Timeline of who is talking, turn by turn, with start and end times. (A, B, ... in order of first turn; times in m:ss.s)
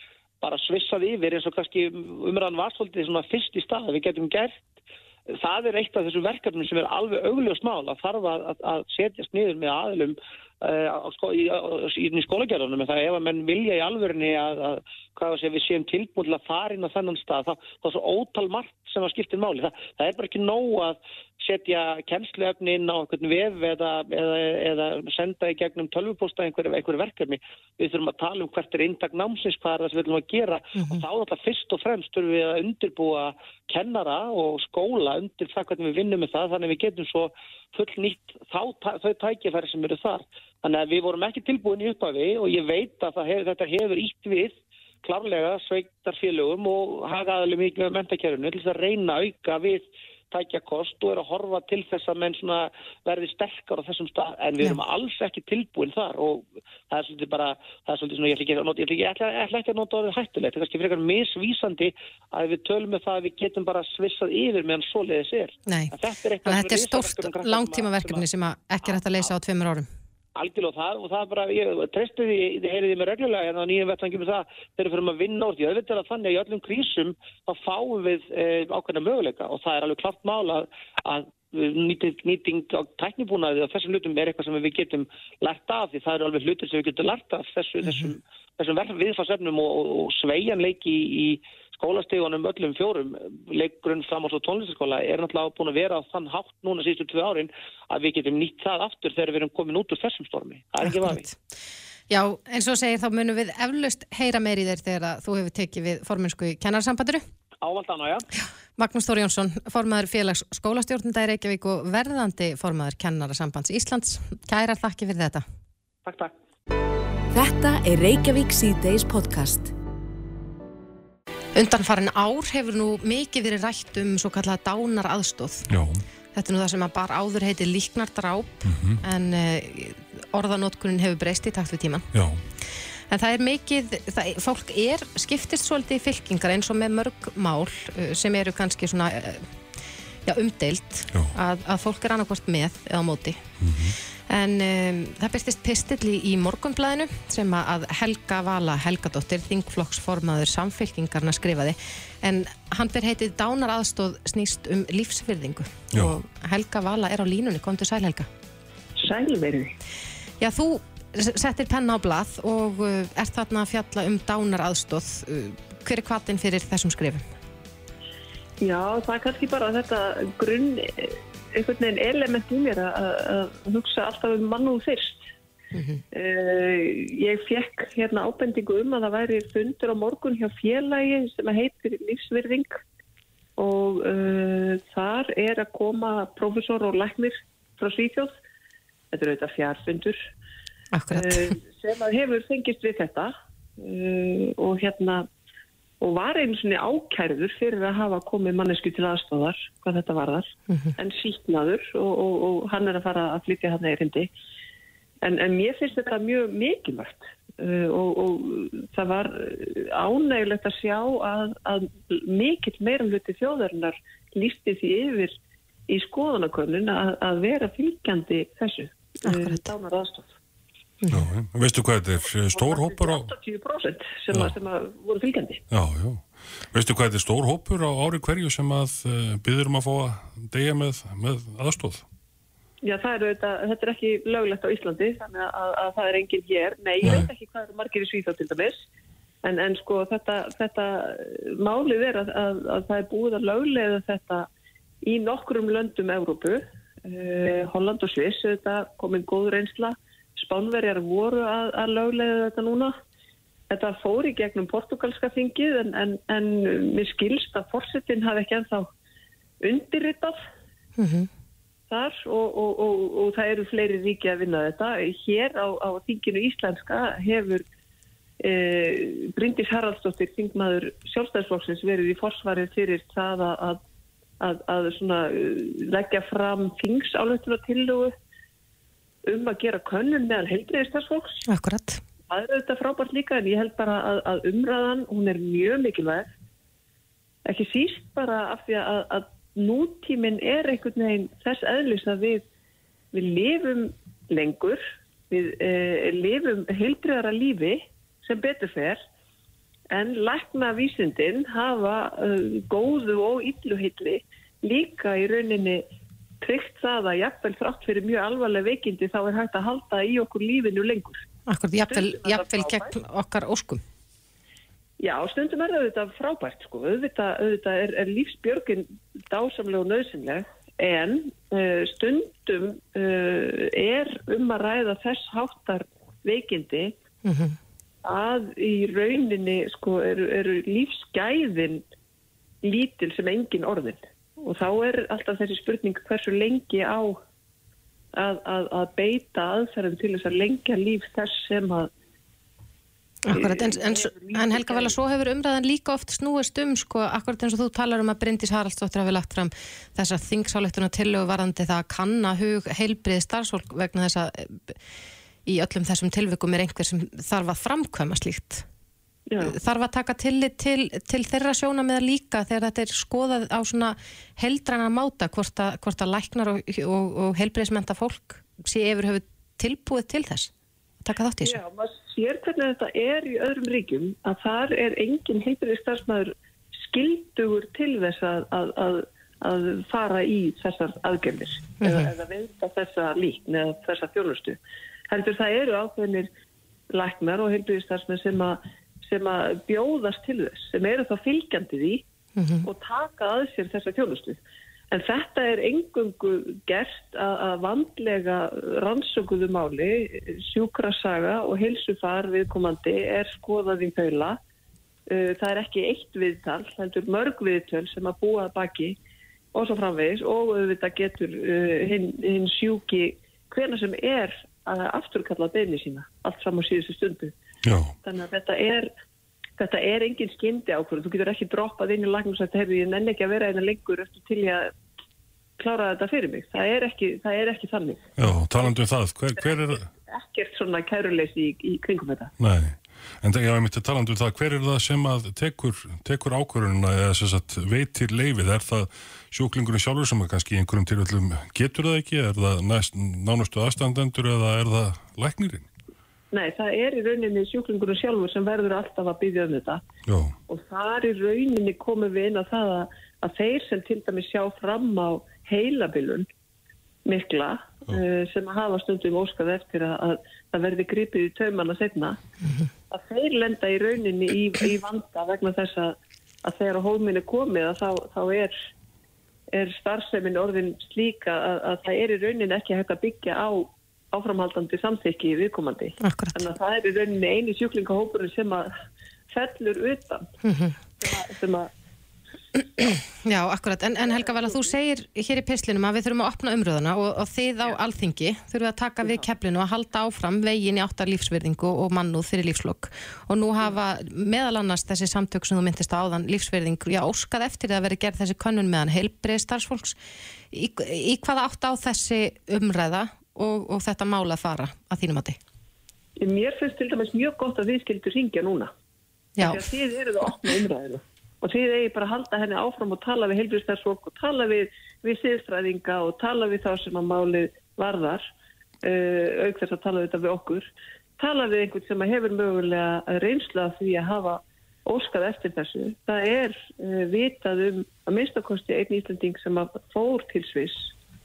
0:00.4-0:04.7 A
0:05.4-1:08.2 A
1:05.7-1:09.9 B
1:08.8-1:09.3 A
1:10.4-1:41.2 A
1:40.8-1:41.4 B
1:42.1-1:47.2 B
1:47.6-1:48.3 A
1:48.8-1:55.4 B
1:56.0-1:56.3 A
1:57.3-1:59.7 C
2:01.5-2:05.7 B
2:05.7-2:06.0 D
2:06.3-2:12.1 B
2:08.6-2:09.0 D
2:12.1-2:12.4 D
2:13.1-2:19.5 B
2:20.2-2:23.4 B
2:23.6-2:24.0 D
2:24.3-2:38.3 B
2:39.0-2:39.7 E
2:40.4-2:47.3 B
2:48.6-2:55.3 E
2:55.7-2:56.0 B
2:56.1-3:02.7 E
3:03.6-3:08.3 E
3:09.1-3:10.2 E
3:10.9-3:11.6 B
3:11.1-3:15.3 E
3:16.0-3:24.3 E
3:20.7-3:20.9 B
3:25.2-3:35.3 E
3:35.9-3:40.3 E
3:39.2-3:39.6 B
3:41.0-3:41.3 B
3:41.1-3:43.3 D
3:42.2-3:45.6 E
3:45.7-3:52.0 D
3:52.8-3:58.8 E
3:57.0-3:57.3 D
3:59.4-4:04.5 E
4:05.0-4:12.9 E
4:13.7-4:18.9 E
4:19.6-4:20.4 E
4:21.0-4:21.3 B
4:21.9-4:27.6 E
4:28.4-4:33.8 E
4:34.4-4:38.1 E
4:39.2-4:41.4 E
4:41.5-4:42.0 B
4:42.3-4:46.3 E
4:47.4-4:52.4 E
4:53.1-4:59.0 E
4:59.9-5:05.8 E
5:06.4-5:11.2 E
5:11.5-5:13.8 B
5:11.8-5:13.0 E
5:15.0-5:26.9 E
5:27.2-5:27.6 B
5:28.0-5:31.8 E
5:32.6-5:37.2 E
5:38.1-5:41.9 E
5:43.2-5:54.8 B
5:43.3-5:44.9 E
5:55.4-5:58.6 B
5:59.3-5:59.6 E
5:59.4-6:10.5 B
6:11.0-6:11.6 B
6:11.4-6:26.3 E
6:21.8-6:22.1 B
6:26.9-6:32.0 E
6:32.4-6:32.7 B
6:32.6-6:34.4 E
6:34.9-6:44.4 E
6:45.1-6:49.0 E
6:49.5-6:57.3 E
6:57.6-6:57.9 D
6:58.0-6:58.9 E
6:59.6-7:04.7 E
7:05.6-7:08.1 E
7:08.2-7:09.9 D
7:09.4-7:12.3 E
7:12.4-7:25.6 D
7:26.3-7:29.8 E
7:30.1-7:30.3 D
7:30.5-7:36.3 E
7:37.0-7:42.2 E
7:42.9-7:48.5 E
7:49.5-7:58.7 E
7:56.0-7:56.4 B
7:59.3-8:00.3 E
8:00.4-8:00.8 B
8:01.0-8:01.7 E
8:02.6-8:20.0 B
8:04.3-8:04.7 E
8:09.0-8:09.3 E
8:20.5-8:25.4 B
8:26.2-8:28.7 E
8:29.4-8:29.7 B
8:29.4-8:38.2 E
8:38.8-8:50.9 E